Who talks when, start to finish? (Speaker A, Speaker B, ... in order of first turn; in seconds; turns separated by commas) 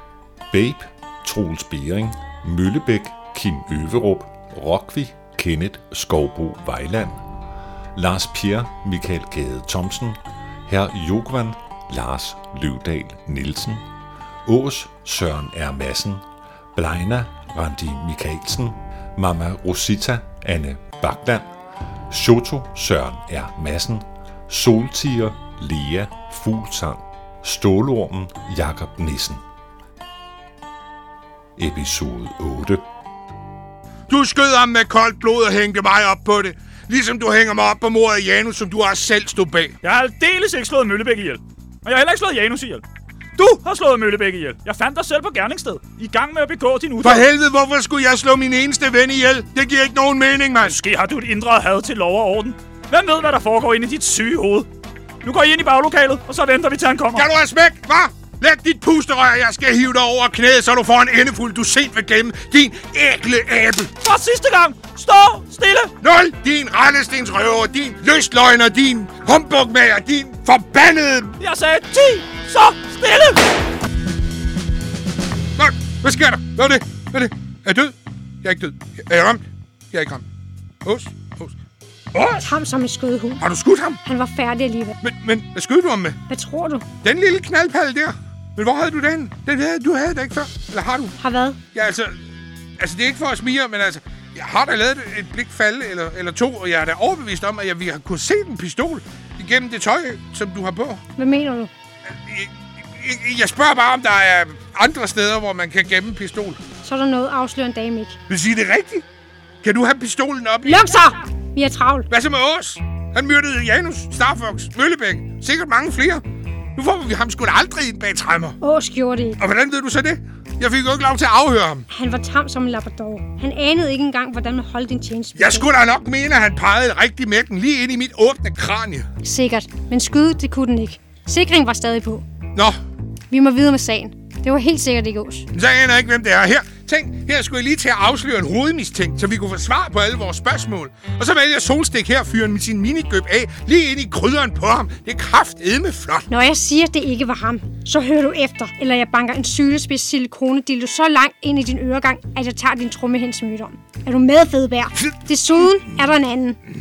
Speaker A: 0.5-7.2, Speaker A: 7.9-13.8, Speaker A: 14.4-16.2, Speaker A: 16.7-21.5, Speaker A: 22.1-29.4, Speaker A: 31.6-32.8, Speaker B: 34.1-39.8, Speaker C: 39.8-42.8, Speaker C: 43.4-47.2, Speaker B: 47.0-50.8, Speaker C: 50.6-54.7, Speaker C: 55.2-57.3, Speaker B: 57.1-63.9, Speaker C: 64.0-65.9, Speaker B: 66.0-71.4, Speaker C: 71.4-73.4, Speaker B: 75.6-80.2, Speaker B: 80.8-81.5, Speaker B: 82.1-82.5, Speaker D: 82.4-83.4, Speaker B: 83.4-84.0, Speaker D: 84.0-85.0, Speaker B: 85.0-86.2, Speaker D: 86.3-86.8, Speaker B: 87.0-91.2, Speaker D: 91.2-91.6, Speaker B: 91.7-92.2, Speaker B: 92.8-101.0, Speaker D: 101.2-101.7, Speaker B: 102.1-106.6, Speaker D: 106.8-108.2, Speaker B: 108.3-109.0, Speaker B: 109.6-111.0, Speaker D: 110.7-112.1, Speaker B: 112.1-116.2, Speaker B: 116.8-118.6, Speaker D: 118.6-119.4, Speaker B: 119.4-121.9, Speaker D: 121.9-125.7, Speaker B: 125.3-129.1, Speaker D: 129.2-132.2, Speaker D: 133.3-135.5, Speaker B: 135.5-146.3, Speaker D: 146.3-156.6